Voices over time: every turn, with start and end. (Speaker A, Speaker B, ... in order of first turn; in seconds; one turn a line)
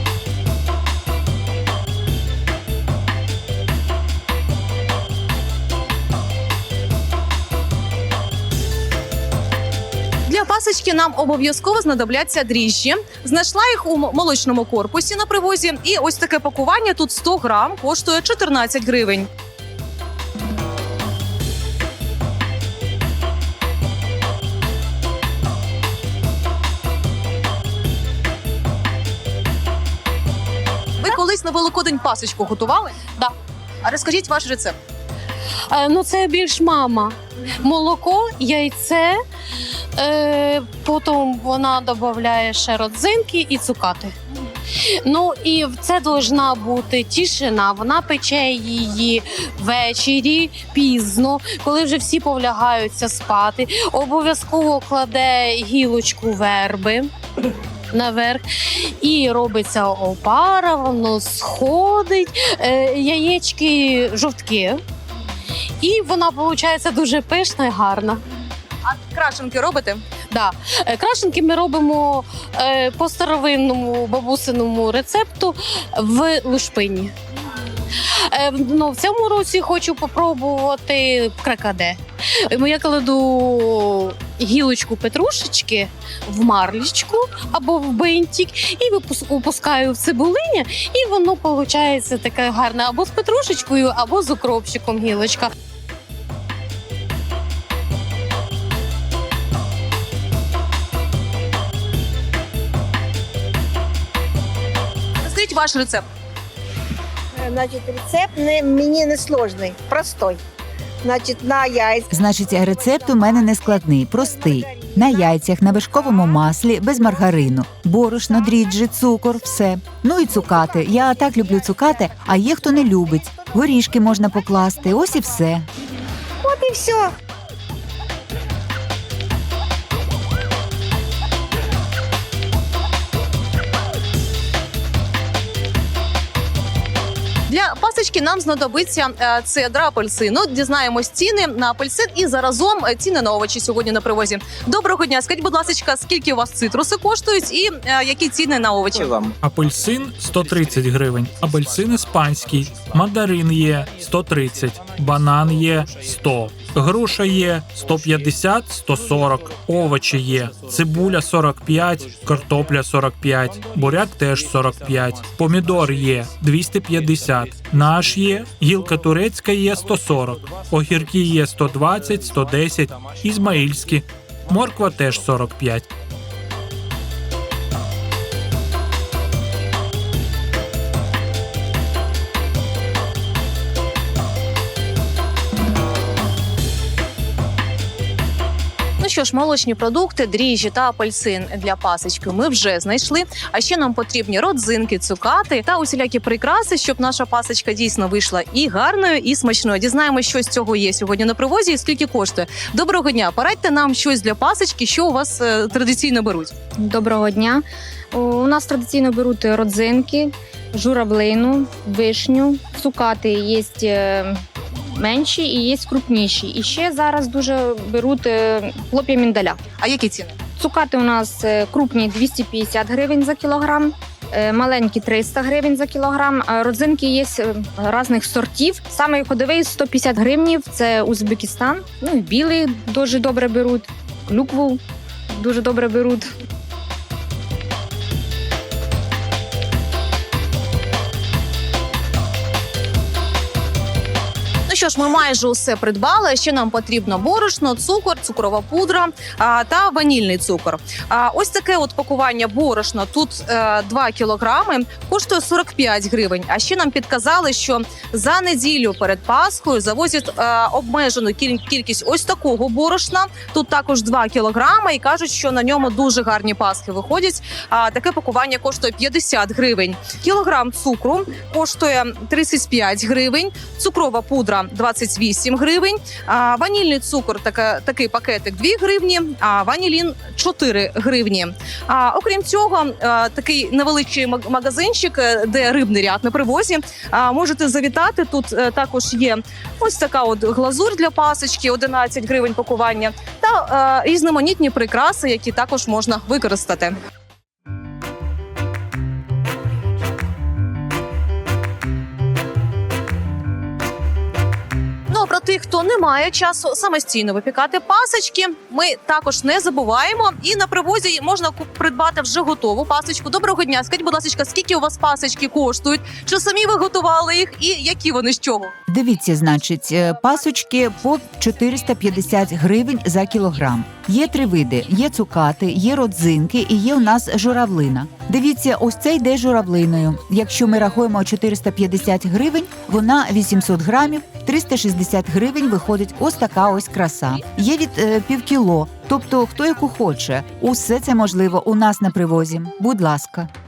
Speaker A: 10.3-19.3
Speaker A: 31.0-33.0
Speaker A: 33.8-34.8
Speaker B: 35.7-39.2
Speaker B: 40.0-44.1
Speaker B: 44.7-57.1
Speaker B: 57.9-64.8
Speaker B: 65.8-68.2
Speaker A: 68.9-70.0
Speaker B: 70.3-77.1
Speaker B: 77.9-95.5
Speaker A: 105.2-106.0
Speaker C: 107.4-110.4
Speaker C: 111.0-112.1
Speaker D: 112.1-125.7
Speaker C: 126.5-127.1
Speaker A: 137.5-149.2
Speaker E: 149.4-175.9
Speaker A: 189.0-206.5
Speaker F: 206.8-214.4
Speaker F: 214.9-219.6
Speaker A: 219.8-220.4
Speaker F: 220.6-236.3
Speaker A: 244.7-296.9
Speaker A: 305.1-318.7
Speaker D: 318.9-343.5